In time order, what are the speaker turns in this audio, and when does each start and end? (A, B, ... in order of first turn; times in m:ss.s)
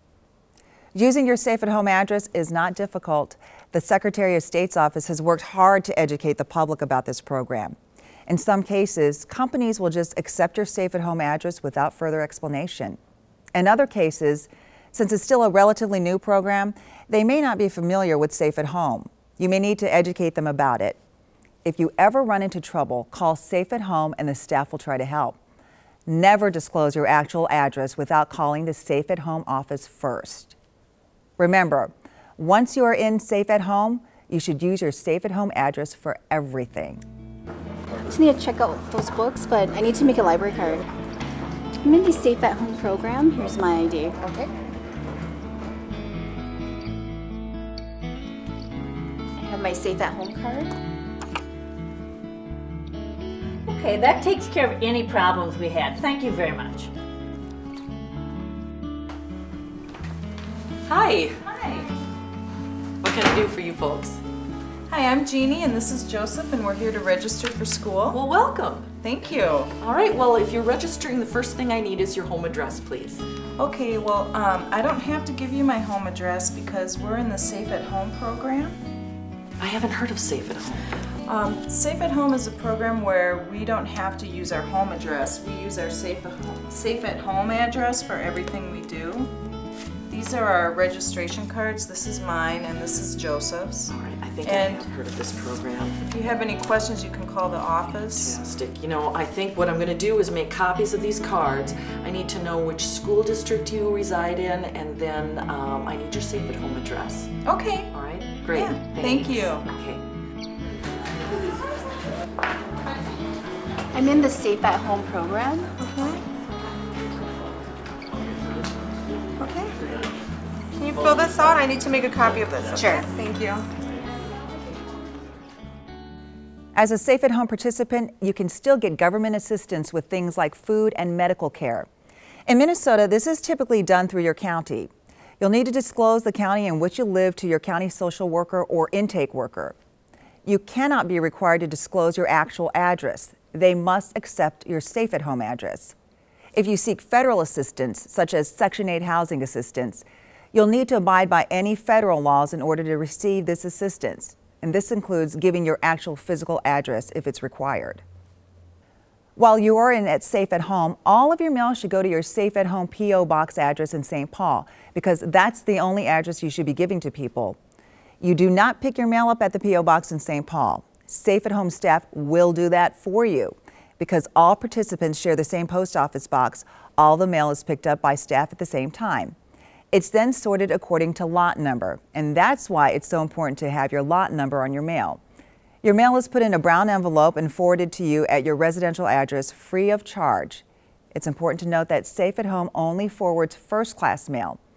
0:00.9-0:07.8 A
0:08.3-0:13.0 A
0:13.5-0:21.0 A
0:21.6-0:25.4 A
0:26.1-0:30.6 A
0:31.4-0:37.0 A
0:38.1-0:40.9 B
0:41.8-0:44.5 B
0:49.4-0:50.8 B
0:53.7-0:56.9 C
1:00.8-1:01.5 D
1:03.0-1:04.2 D
1:04.9-1:08.2 E
1:08.1-1:08.9 D
1:09.0-1:09.7 E
1:09.8-1:13.3 D
1:13.6-1:18.7 E
1:19.6-1:20.9 D
1:21.3-1:29.3 E
1:30.1-1:33.9 E
1:33.9-1:36.1 D
1:36.1-1:38.3 E
1:37.7-1:47.3 D
1:47.5-1:47.8 E
1:47.9-1:50.0 D
1:48.6-1:49.6 E
1:53.9-1:55.7 B
1:55.9-1:56.2 E
2:00.8-2:03.6 E
2:02.7-2:03.1 B
2:06.8-2:11.9 A
2:12.5-2:19.8 A
2:20.5-2:26.0 A
2:26.6-2:38.0 A
2:39.4-2:47.6 A
2:48.2-2:59.4 A
2:59.9-3:05.2 A
3:05.8-3:14.6 A